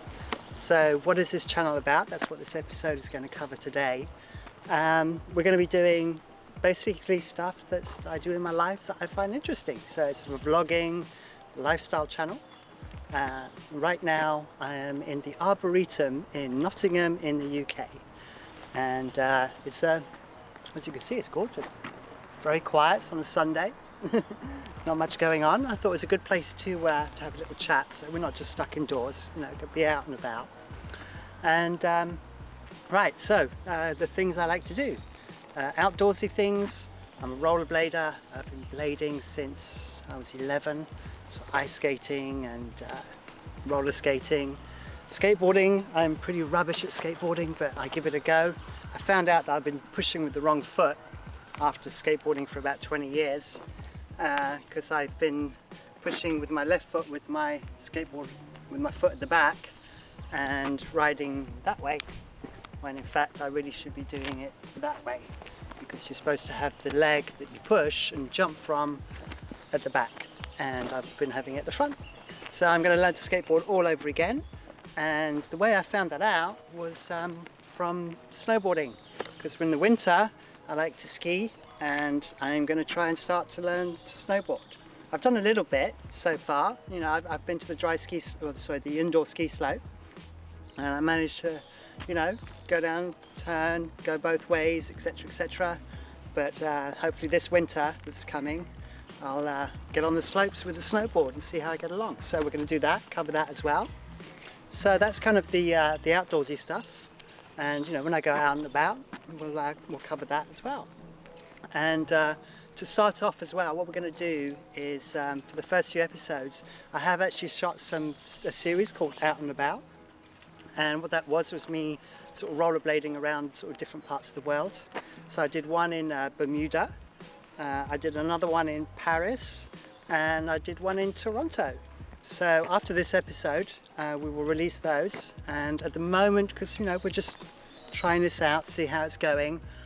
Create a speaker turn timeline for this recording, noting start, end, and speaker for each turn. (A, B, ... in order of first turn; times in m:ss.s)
0:00.6-0:04.1 A
0:04.7-0:12.4 A
0:13.1-0:18.0 A
0:18.7-0:20.1 A
0:20.7-0:21.7 A
0:22.4-0:30.5 A
0:31.4-0:32.2 A
0:32.9-0:35.0 A
0:35.5-0:43.1 A
0:43.6-0:51.0 A
0:51.6-0:53.6 A
0:54.2-0:59.8 A
1:00.3-1:02.1 A
1:02.8-1:09.0 A
1:09.7-1:14.4 A
1:15.0-1:29.8 A
1:30.8-1:35.8 A
1:36.3-1:43.9 A
1:44.7-1:50.9 A
1:51.7-1:59.8 A
2:00.8-2:06.9 A
2:07.6-2:19.6 A